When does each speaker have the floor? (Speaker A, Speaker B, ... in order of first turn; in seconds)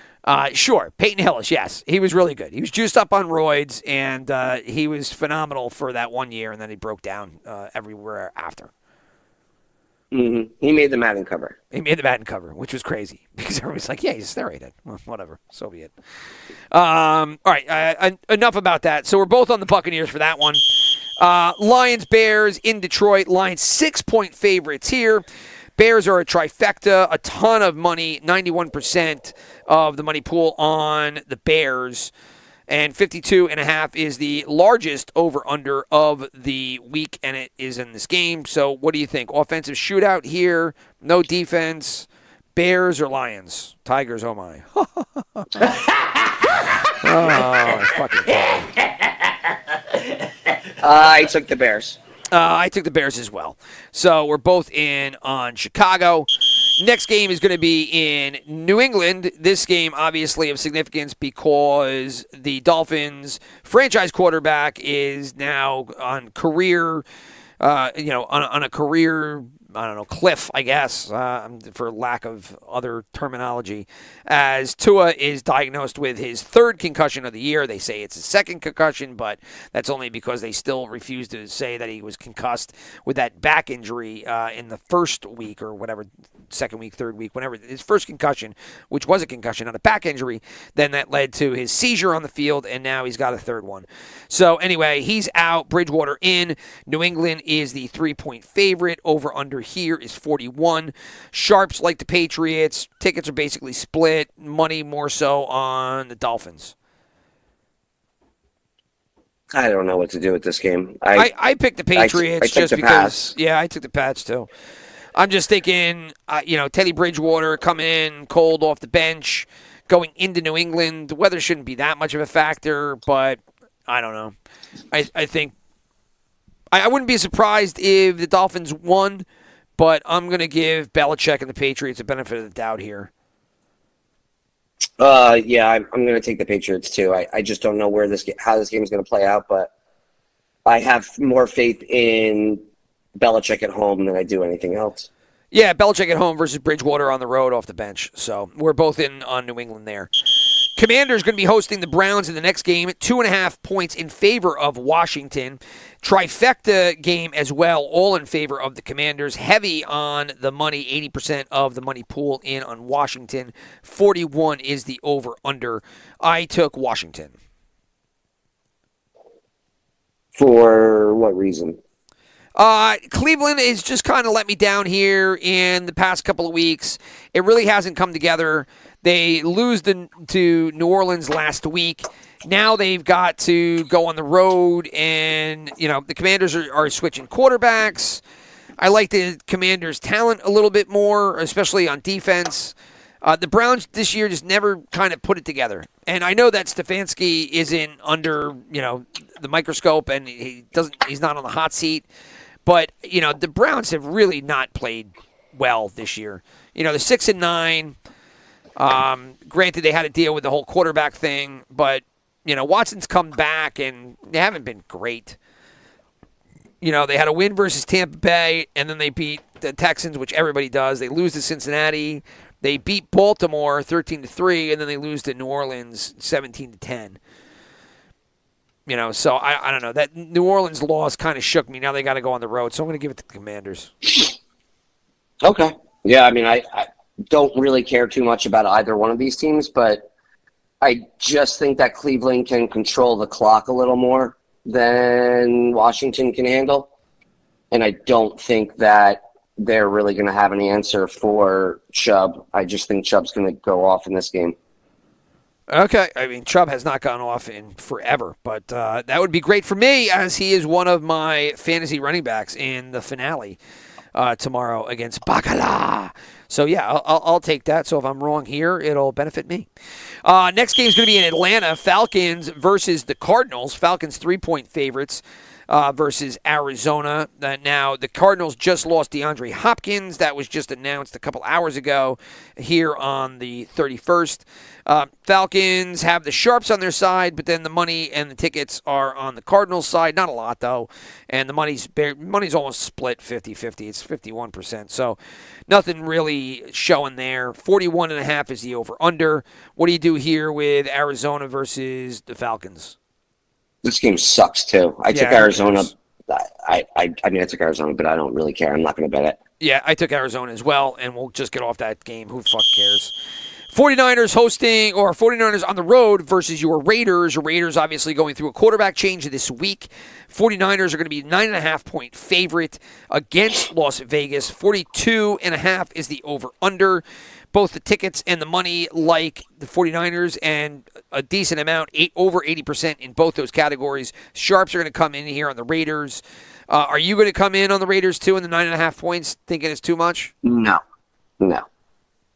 Speaker A: 0.3-8.7, 11.7-15.9, 16.7-20.6, 21.2-25.2, 25.8-32.1, 32.7-45.6, 47.0-48.7, 52.3-67.0, 67.6-106.7, 111.2-114.5, 115.2-124.3, 124.9-125.5, 126.7-129.2, 129.8-133.1, 145.5-150.1, 150.8-167.3, 172.6-188.2, 188.8-202.1, 202.7-207.9, 208.8-215.4, 216.8-227.2, 228.9-233.9, 255.7-263.6, 264.1-269.7, 270.2-295.2, 295.7-302.9, 305.1-305.9, 309.6-313.1, 313.7-340.3
Speaker B: 10.1-11.6, 50.8-52.0, 109.5-111.3, 112.0-113.2, 135.0-139.7, 140.7-142.6, 143.2-145.1, 170.3-171.8, 235.4-240.1, 240.8-246.9, 247.7-254.6, 303.8-309.4, 340.4-340.8, 341.4-341.7